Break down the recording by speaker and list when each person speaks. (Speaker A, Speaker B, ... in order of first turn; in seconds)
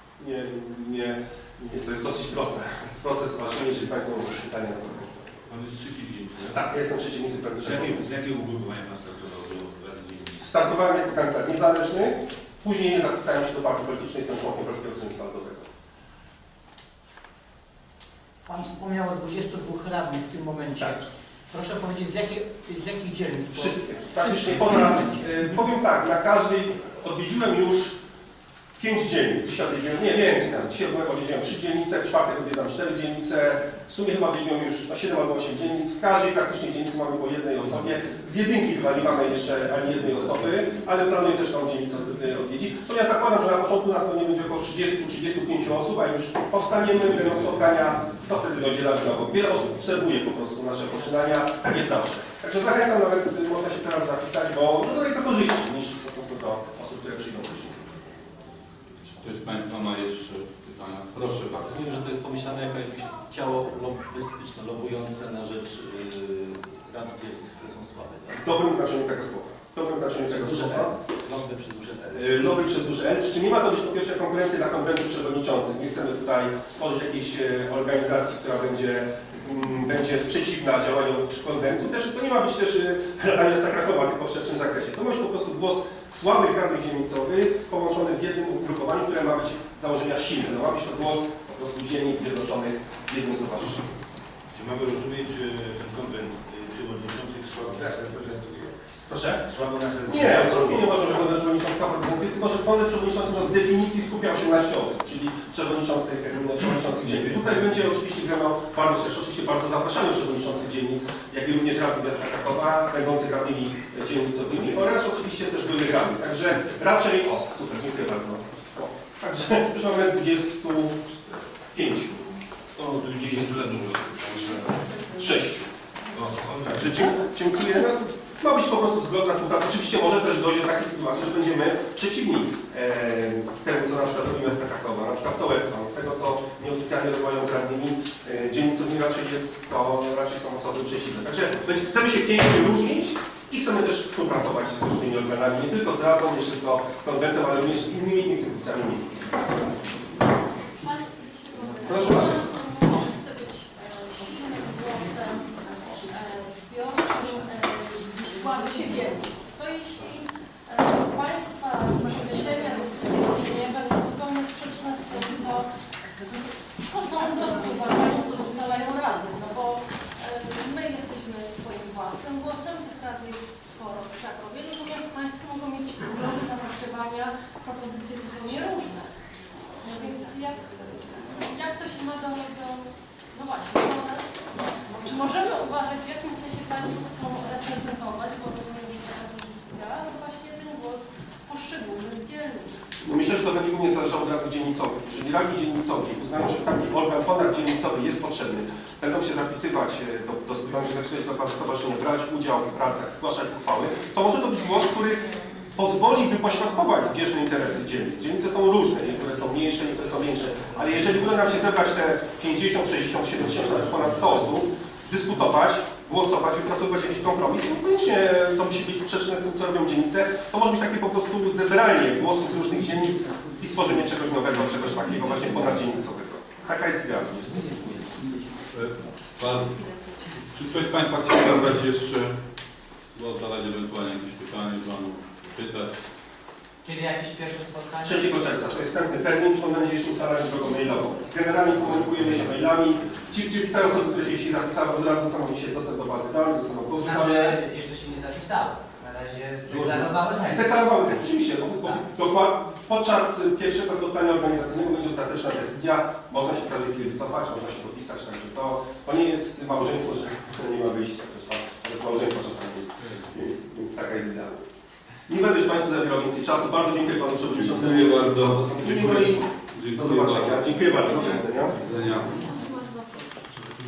Speaker A: 0.2-5.4, 6.5-8.1, 10.4-15.7, 23.5-28.0, 28.8-57.8, 68.4-70.9, 72.1-93.9, 99.1-99.5, 100.1-122.3, 125.0-125.7, 126.7-149.6, 193.0-227.8, 238.0-247.6, 250.4-264.6, 265.3-271.8
Speaker B: 5.5-6.6, 7.6-10.6, 94.5-98.8, 99.4-100.9, 122.8-124.8, 126.1-127.0
Speaker C: 18.5-25.6, 236.8-238.5, 247.0-250.9
Speaker D: 59.2-61.7, 151.8-152.4, 228.7-229.8, 230.5-232.3, 233.1-235.9, 267.5-270.8, 271.7-272.5
Speaker E: 61.5-68.5, 70.3-72.7, 227.5-228.1
Speaker F: 150.7-165.7, 166.8-179.2, 179.8-193.1, 271.0-273.3